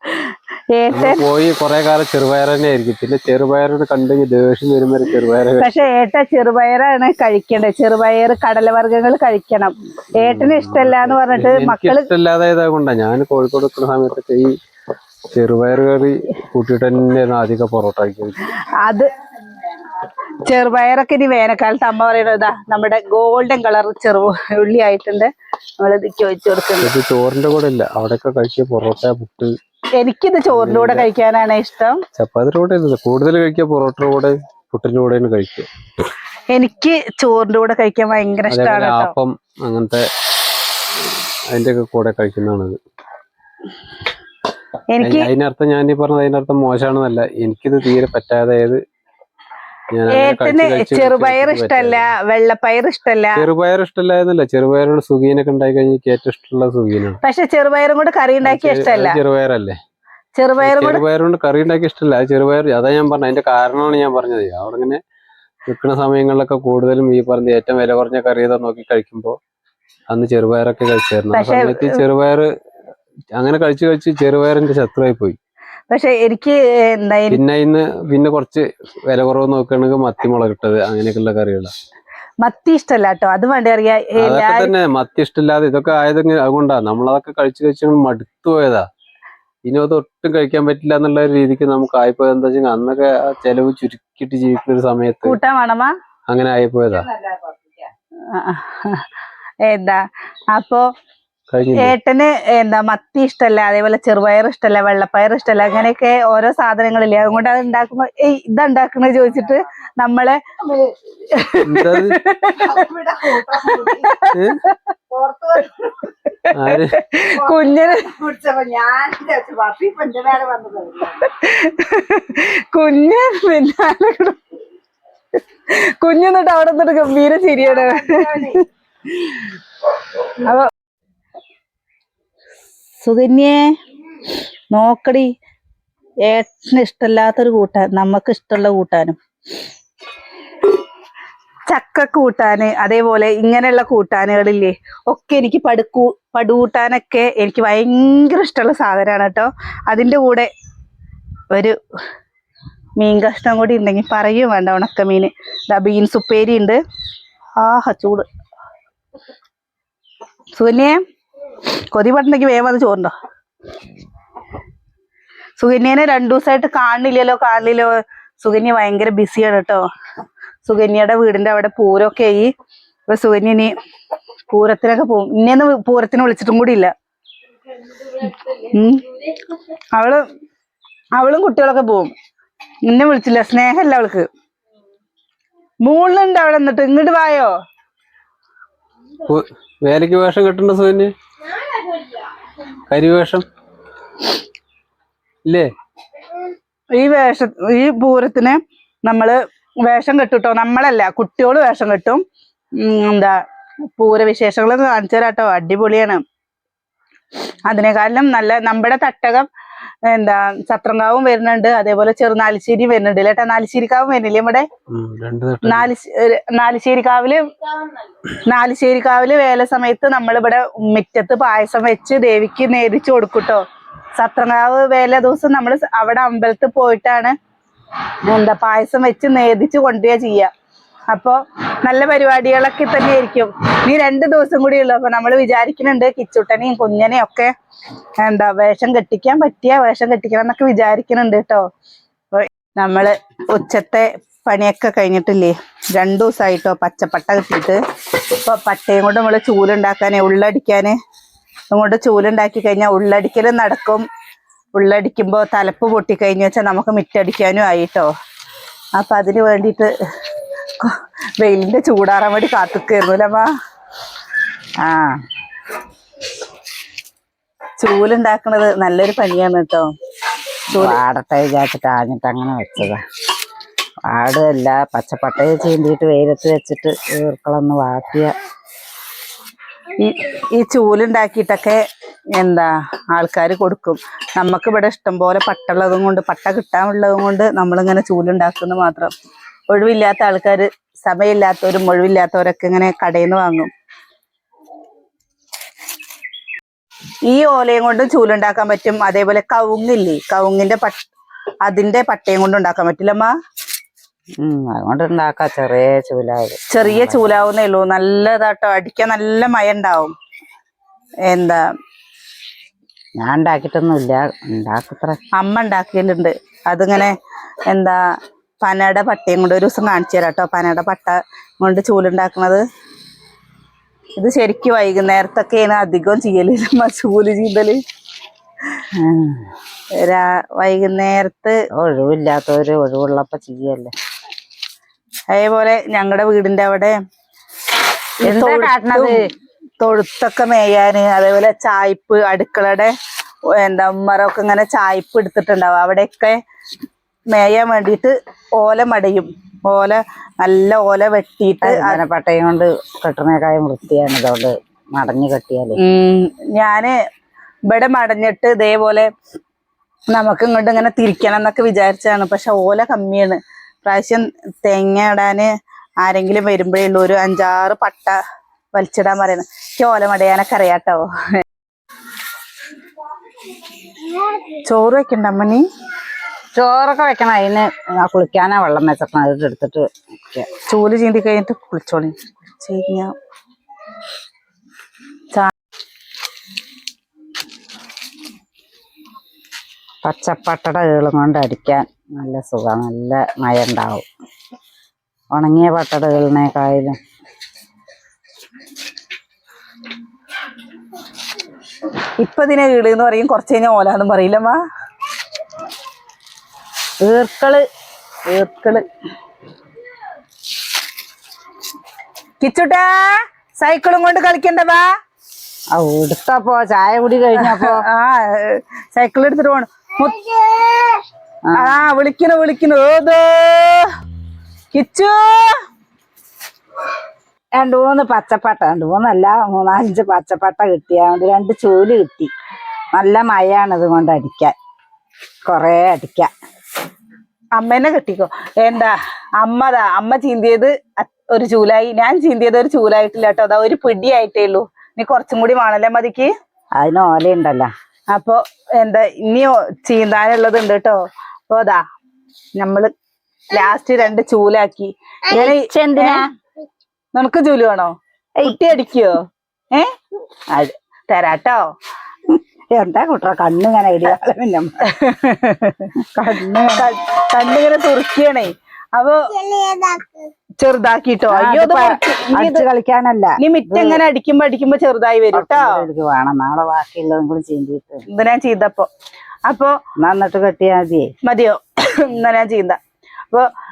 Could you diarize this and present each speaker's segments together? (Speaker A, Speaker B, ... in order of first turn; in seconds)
Speaker A: 0.2-1.2, 5.6-12.1, 20.4-26.9, 30.0-32.0, 36.5-39.1, 44.9-45.3, 50.1-53.5, 57.2-59.2, 60.3-61.0, 71.3-72.0, 75.9-77.4, 82.4-84.7, 95.2-95.9, 98.3-99.0, 99.7-100.0, 100.5-100.8, 101.8-110.4, 111.3-112.8, 113.8-114.8, 116.3-118.1, 121.2-124.4, 126.0-128.6, 133.0-133.6, 134.7-135.3, 136.2-139.2, 141.7-150.5, 153.0-156.8, 157.6-158.2, 160.6-161.0, 161.9-163.1, 165.6-167.9, 168.4-169.8, 170.6-172.5, 173.1-173.7, 174.5-176.9, 178.1-179.0, 179.9-180.2, 181.2-182.1, 182.8-184.2, 185.8-187.5, 196.9-202.2, 202.8-203.3, 204.0-206.2, 207.7-209.5, 210.1-214.7, 215.6-217.4, 218.5-223.6, 224.2-227.3, 228.2-230.5, 231.1-237.5, 238.2-241.6, 242.3-247.8, 248.4-250.9, 251.7-254.0, 254.7-258.1, 258.9-259.9, 260.8-263.5, 267.8-269.9, 270.7-271.0, 280.0-281.8, 282.4-289.1, 289.7-293.7, 297.3-301.1, 301.6-303.3, 306.7-310.1, 311.3-311.6, 315.4-317.1, 317.7-318.0, 318.6-322.6, 324.2-327.8, 330.0-331.5, 335.3-336.9, 338.2-339.1, 339.8-342.9, 343.6-346.4, 347.3-352.0, 355.8-356.9, 357.7-359.1, 360.1-365.5, 366.0-368.1, 368.7-371.1, 374.6-375.6, 380.7-383.1, 402.2-404.6, 412.4-414.9, 417.4-421.0, 421.6-423.9, 424.7-425.5, 437.6-446.3, 448.1-451.8, 452.6-452.9, 453.5-456.2, 457.1-459.2, 461.1-461.6, 464.9-465.9, 466.7-469.2, 470.6-472.6, 473.4-475.8, 478.1-478.9, 479.5-479.7, 481.2-482.8
Speaker B: 0.9-5.8, 10.2-14.5, 15.3-18.4, 26.8-29.5, 30.5-31.1, 32.1-35.7, 38.5-40.0, 41.0-42.8, 45.0-48.8, 49.9-52.1, 53.4-57.2, 58.4-59.7, 60.6-65.0, 65.7-69.3, 70.1-72.5, 73.4-75.4, 77.3-81.7, 84.2-88.8, 89.7-95.4, 96.3-97.1, 101.5-102.0, 111.6-112.2, 114.3-114.6, 116.5-117.0, 189.3-191.1, 192.9-193.4, 214.9-215.9
Speaker C: 96.9-97.8, 112.6-114.2, 115.1-116.1, 117.3-121.2, 127.6-128.6, 264.8-265.2, 270.8-273.0, 274.1-278.3, 304.4-307.2, 313.2-315.2, 329.0-329.4, 331.8-333.9, 338.2-339.2, 351.6-355.8, 376.5-380.5, 390.0-394.1, 395.3-397.0, 407.0-407.6, 408.3-408.8, 415.7-417.8, 421.4-421.7, 427.5-432.3, 432.9-434.5, 435.4-436.3, 446.8-447.7, 455.3-456.3, 462.3-464.8, 466.0-466.9, 471.3-474.0, 475.3-478.0, 480.0-481.1